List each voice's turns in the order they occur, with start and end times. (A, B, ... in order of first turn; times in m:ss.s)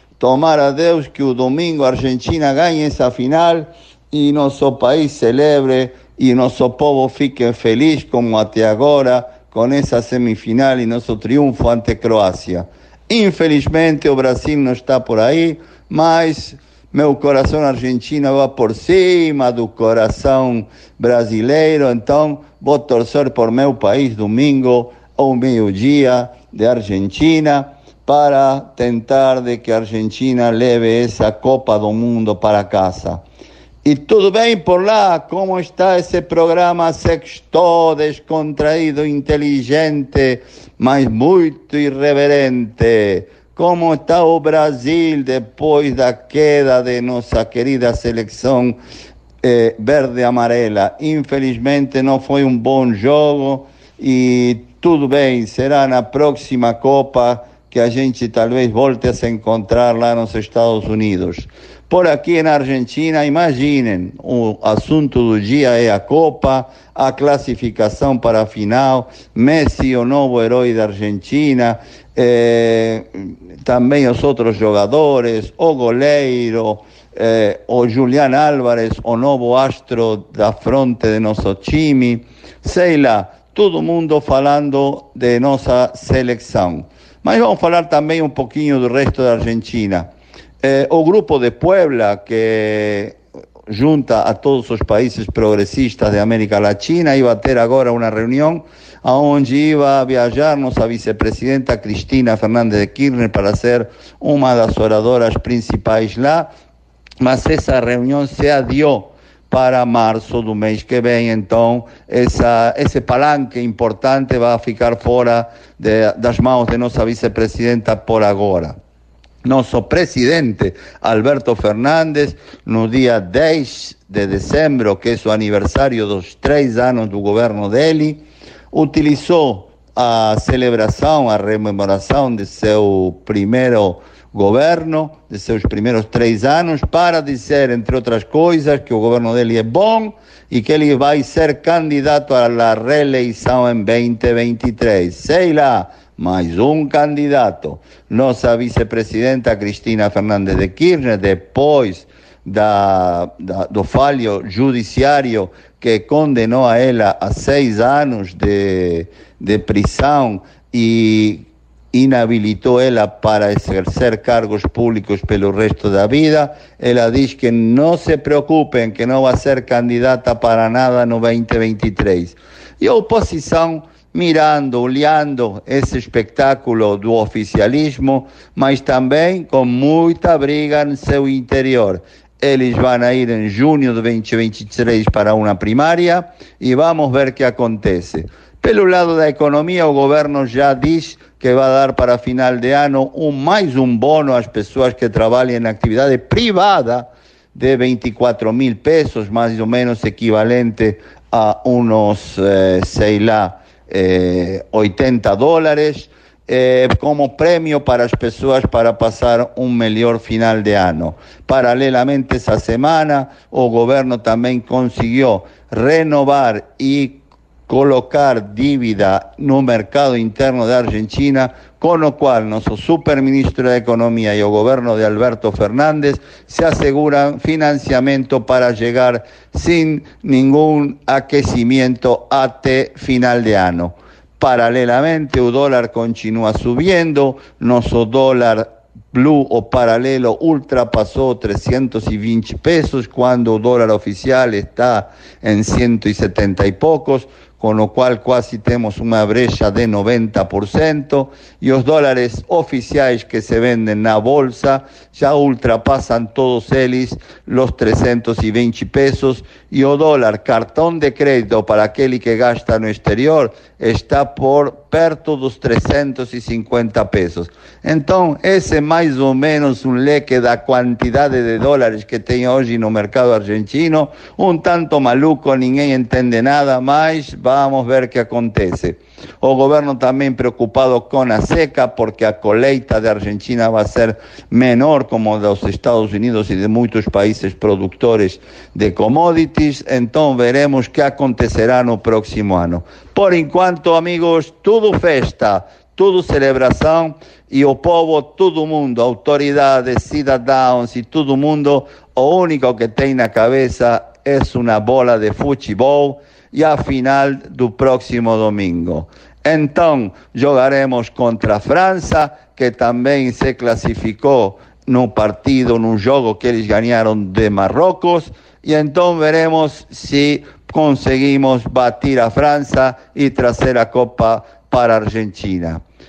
0:00.2-0:33.2 A
0:33.8-0:48.8 A
0:49.4-1:30.1 A
1:30.6-1:33.2 A
1:33.7-1:46.5 A
1:47.2-1:58.8 A
1:59.4-5:25.8 A